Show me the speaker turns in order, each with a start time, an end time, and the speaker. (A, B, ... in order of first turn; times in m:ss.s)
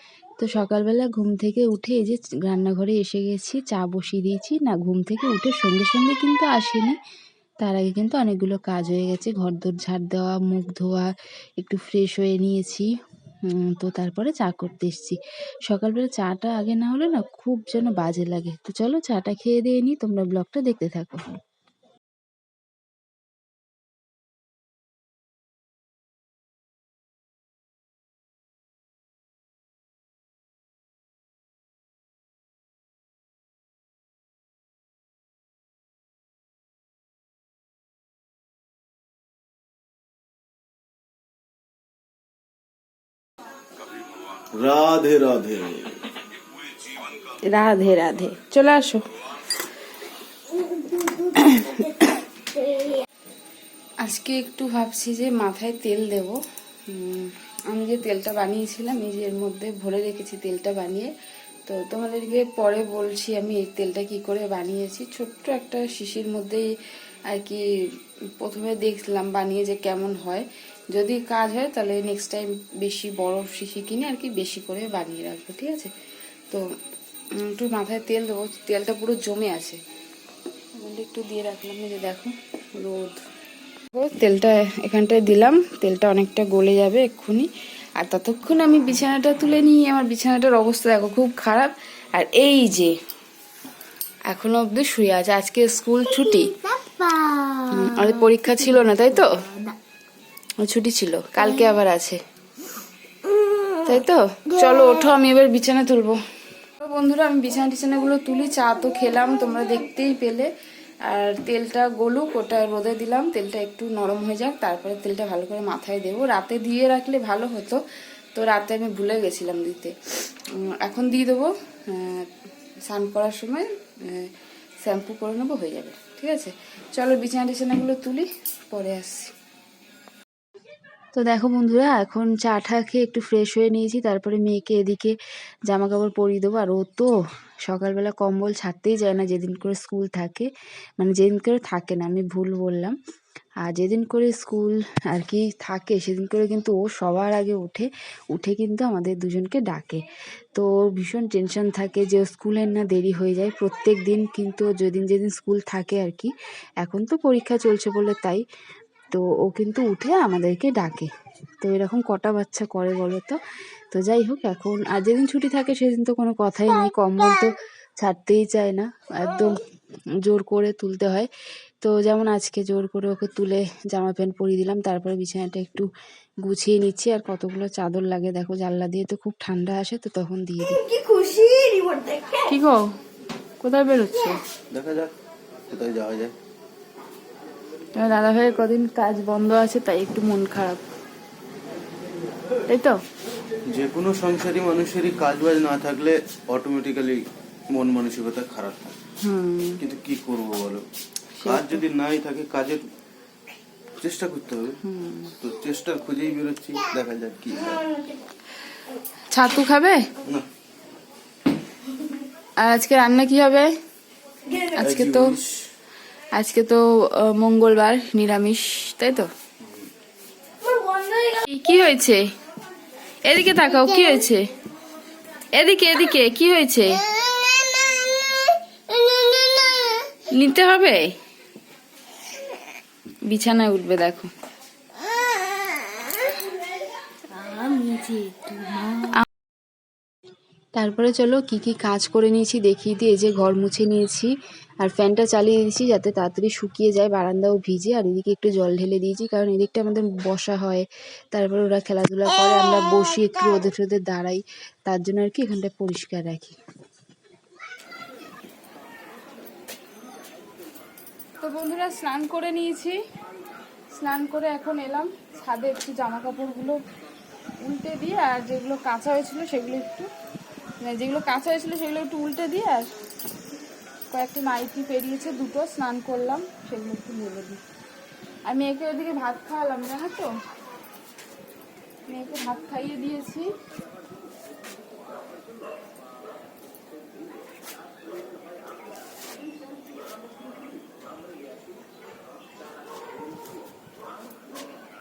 0:00.4-0:07.0 A
0:07.6-0:12.9 A
0:13.4-0:21.4 A
0:44.3-0:46.0 B
0:47.4-0:49.0 A
0:51.0-0:52.2 A
0:54.0-1:01.1 A
1:01.6-1:06.7 A
1:07.3-1:07.6 A
1:08.4-1:15.9 A
1:17.4-1:19.8 A
1:20.8-1:23.2 A
1:23.9-1:33.0 A
1:34.3-1:39.5 A
1:37.1-1:37.5 C
1:40.6-1:42.2 A
1:43.8-1:46.2 A
1:46.8-1:50.5 A
1:51.1-1:57.8 A
1:58.3-2:00.0 A
2:00.5-2:02.3 A
2:02.9-2:04.3 A
2:04.8-2:09.3 A
2:11.1-2:17.1 A
2:17.7-2:20.5 A
2:21.0-2:23.0 A
2:23.6-2:38.4 A
2:39.1-2:41.1 A
2:41.6-2:43.4 A
2:43.9-2:49.6 A
2:50.2-2:51.3 A
2:51.8-2:55.9 A
2:56.4-3:01.0 A
3:00.9-3:02.3 C
3:02.3-3:02.9 A
3:03.6-3:04.4 A
3:04.7-3:05.1 B
3:05.7-3:06.3 B
3:08.0-3:10.8 A
3:12.7-3:13.0 A
3:13.7-3:19.0 B
3:19.2-3:19.8 A
3:19.8-3:20.8 B
3:21.3-3:21.8 A
3:21.4-3:22.8 B
3:24.0-3:24.8 B
3:24.8-3:25.3 A
3:25.4-3:28.0 B
3:29.3-3:30.1 A
3:32.6-3:33.7 A
3:34.5-3:35.4 A
3:34.7-3:35.7 B
3:36.4-3:39.3 A
3:40.7-3:41.0 C
3:41.1-3:42.3 A
3:43.2-3:44.4 A
3:45.5-3:47.1 A
3:49.3-3:49.6 C
3:50.3-3:51.1 A
3:53.3-3:54.3 A
3:57.3-3:59.0 C
3:59.0-3:59.2 A
4:00.8-4:16.6 A
4:21.4-4:23.0 A
4:23.9-4:26.8 A
4:27.6-4:30.1 A
4:30.8-4:32.9 A
4:34.1-4:37.6 A
4:38.4-4:40.3 A
4:42.1-4:43.5 A